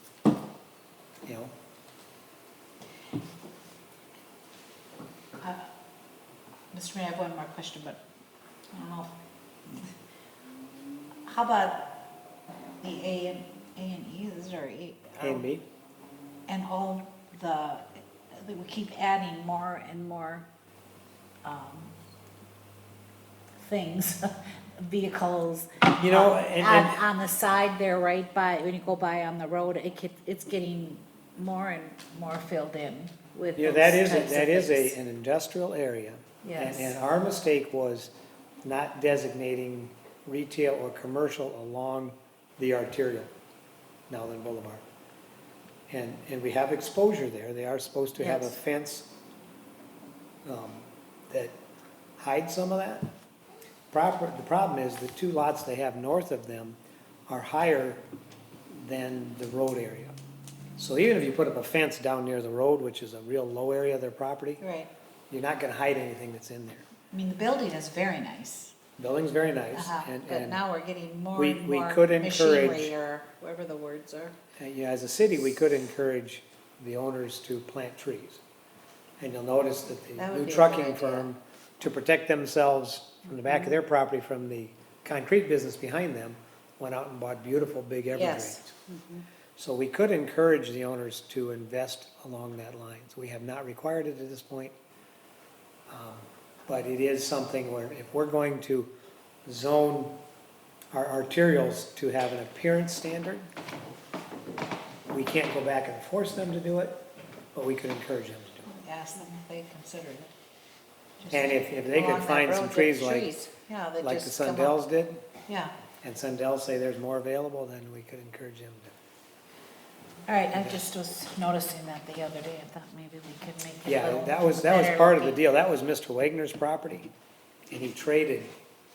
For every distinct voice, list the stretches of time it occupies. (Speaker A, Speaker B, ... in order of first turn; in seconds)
Speaker A: 1.2-1.5, 15.2-15.6, 25.9-27.0, 33.6-43.3, 44.1-44.8, 45.9-49.1, 50.4-51.5, 52.2-53.1, 53.9-58.0, 58.7-60.1, 60.8-64.6, 65.3-66.9, 69.0-70.6, 71.3-72.9, 74.6-78.4, 79.2-88.7, 89.6-94.7, 95.9-98.9, 99.5-100.2, 100.9-103.5, 105.1-108.7, 111.3-113.4, 114.0-115.2, 116.0-118.9, 123.8-127.1, 127.7-128.5
Speaker B: 5.4-5.7, 6.7-8.0, 8.7-9.9, 11.2-12.0, 12.8-15.5, 16.5-20.5, 21.4-21.9, 23.6-35.0, 36.4-37.0, 48.2-48.5, 64.6-64.9, 67.1-68.8, 69.7-74.4, 80.2-81.3, 88.1-89.2, 108.7-110.3, 111.2-114.8, 115.5-115.7, 120.3-125.4